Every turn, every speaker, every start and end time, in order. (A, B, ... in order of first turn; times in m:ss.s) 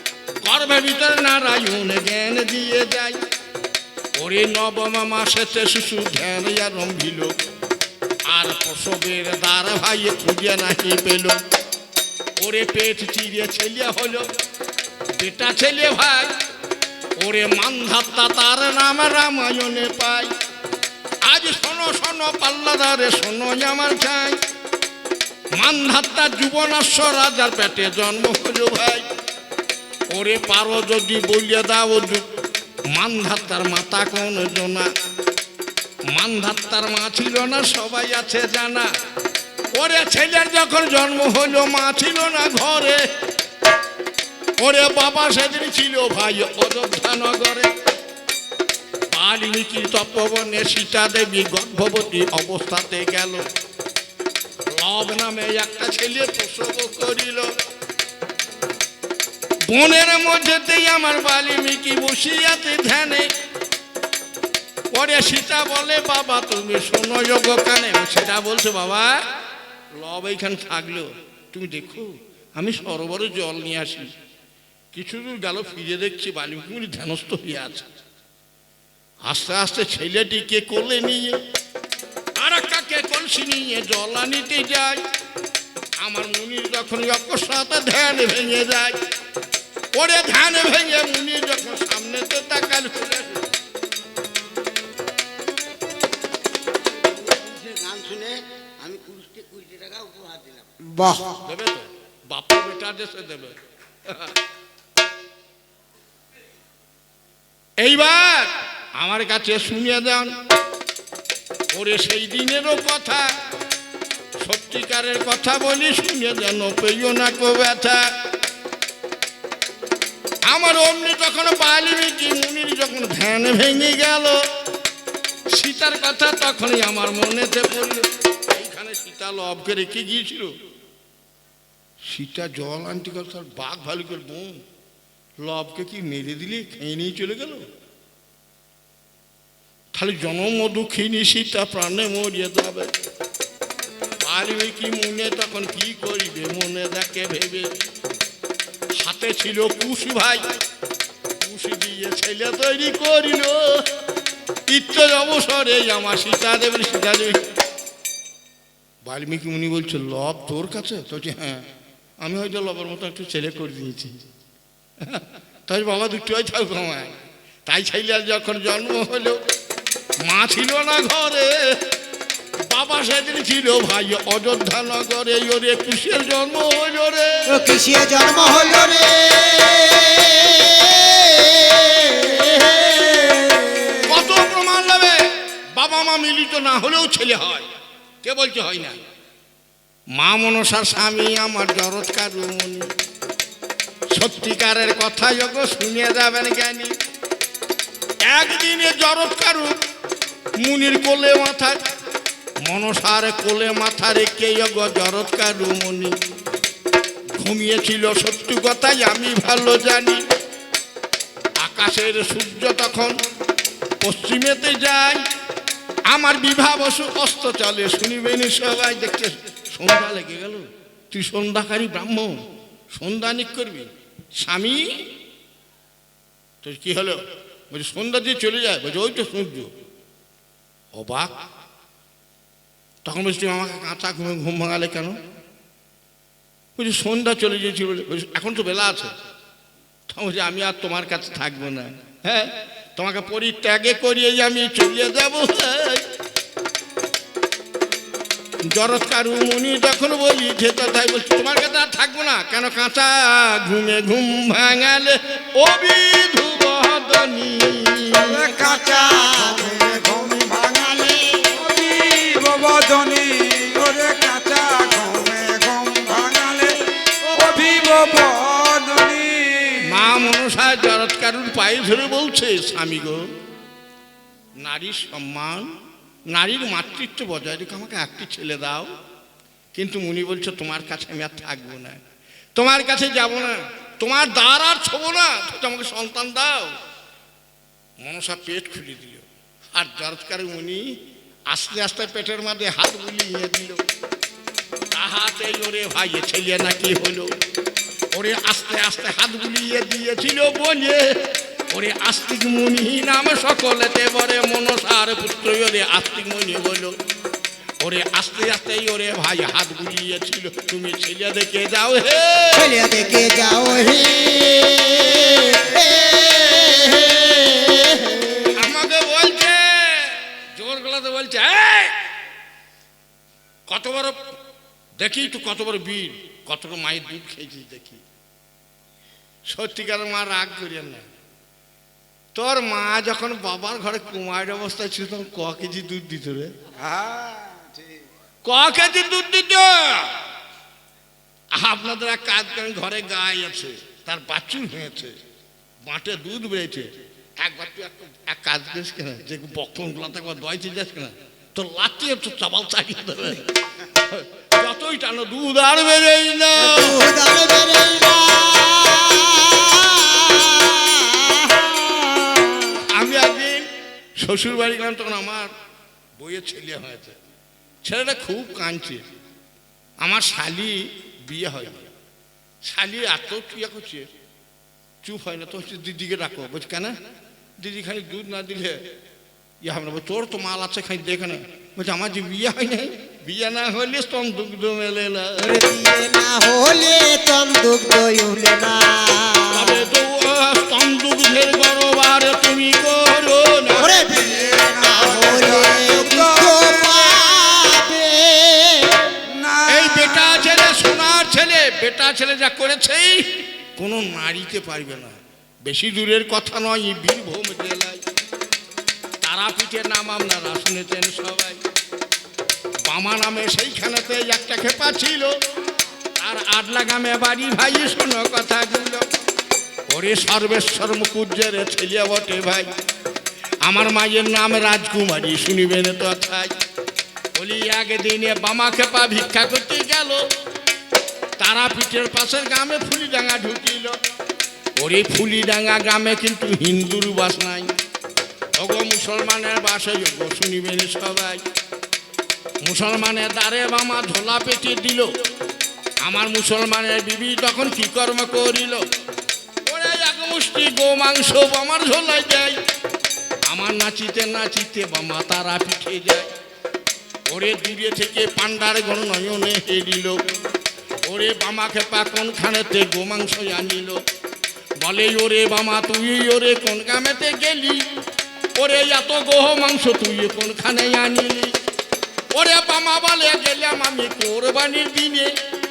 0:00.4-0:03.2 A
0:04.2-0:07.4 A
0:08.3-0:11.4 A
0:12.4-0:14.2 A
0:15.2-0:16.3 A
0:17.2-0:20.3 A
0:21.2-0:24.4 A
0:25.6-0:29.0 A
0:30.1-0:32.3 A
0:32.9-0:34.9 A
0:36.1-0:38.9 A
0:39.8-0:43.0 A
0:44.6-0:47.7 A
0:49.1-0:53.4 A
0:54.7-0:57.5 A
0:59.7-1:03.3 A
1:04.9-1:09.2 A
1:09.9-1:14.1 A
1:14.9-1:17.9 A
1:19.2-1:21.4 A
1:22.4-1:25.0 A
1:26.0-1:29.0 A
1:30.0-1:33.4 A
1:36.8-1:40.7 B
1:40.8-1:41.3 C
1:41.4-1:43.6 A
1:44.1-1:44.3 A
1:47.8-1:50.3 A
1:51.7-1:53.3 A
1:54.4-1:58.0 A
2:00.4-2:04.4 A
2:05.5-2:10.5 A
2:12.1-2:14.6 A
2:15.4-2:17.6 A
2:19.9-2:22.9 A
2:24.2-2:27.7 A
2:29.0-2:30.4 A
2:31.4-2:33.8 A
2:34.7-2:37.4 A
2:39.1-2:41.6 A
2:42.2-2:44.1 A
2:45.0-2:47.1 A
2:47.7-2:49.4 A
2:50.2-2:51.5 A
2:52.7-2:57.5 A
2:57.5-3:04.2 D
3:04.1-3:05.2 A
3:05.8-3:07.7 A
3:08.2-3:09.0 A
3:10.2-3:12.9 A
3:14.1-3:16.9 A
3:18.3-3:19.8 A
3:20.6-3:21.8 A
3:22.6-3:26.1 A
3:27.4-3:30.2 A
3:31.6-3:33.1 A
3:34.0-3:35.2 A
3:36.1-3:42.4 A
3:42.9-3:43.9 A
3:44.4-3:44.8 A
3:46.6-3:47.2 A
3:47.7-3:49.7 A
3:50.9-3:51.3 A
3:53.0-3:55.2 A
3:56.8-3:59.1 A
4:00.1-4:06.0 A
4:08.7-4:18.4 A
4:18.3-4:20.7 C
4:18.4-4:19.9 D
4:20.5-4:21.6 D
4:21.6-4:26.8 C
4:27.4-4:30.1 C
4:29.8-4:33.2 A
4:34.6-4:35.7 A
4:36.3-4:38.9 A
4:39.7-4:42.0 A
4:42.6-4:46.7 A
4:48.0-4:50.8 A
4:51.5-4:53.8 A
4:54.9-4:57.3 A
4:58.1-5:01.1 A
5:01.7-5:07.0 A
5:07.8-5:12.7 A
5:12.5-5:18.6 D
5:18.6-5:21.9 A
5:23.7-5:24.2 A
5:25.0-5:28.0 A
5:29.5-5:31.0 A
5:32.4-5:36.5 A
5:36.8-5:38.0 B
5:38.4-5:40.1 A
5:41.6-5:45.1 A
5:45.9-5:46.9 A
5:47.4-5:53.4 A
5:54.1-5:57.1 A
5:56.6-6:02.8 D
6:02.9-6:03.7 A
6:04.2-6:05.5 A
6:06.2-6:07.2 A
6:07.8-6:09.0 A
6:10.0-6:11.8 A
6:12.7-6:14.1 A
6:15.0-6:16.9 A
6:17.6-6:18.8 A
6:19.6-6:25.4 A
6:25.4-6:29.8 D
6:29.5-6:34.0 A
6:33.8-6:39.2 D
6:34.0-6:37.1 C
6:39.3-6:40.6 C
6:39.7-6:43.2 A
6:43.8-6:48.0 A
6:49.2-6:51.6 A
6:52.9-6:55.3 A
6:56.2-6:59.0 A
6:59.9-7:02.7 A
7:03.6-7:06.5 A
7:07.4-7:10.2 A
7:11.4-7:14.0 A
7:14.8-7:17.7 A
7:18.6-7:21.4 A
7:22.6-7:25.1 A
7:26.0-7:28.8 A
7:29.6-7:32.6 A
7:33.5-7:36.3 A
7:37.3-7:40.2 A
7:41.1-7:44.0 A
7:44.8-7:47.8 A
7:48.6-7:51.5 A
7:52.3-7:55.3 A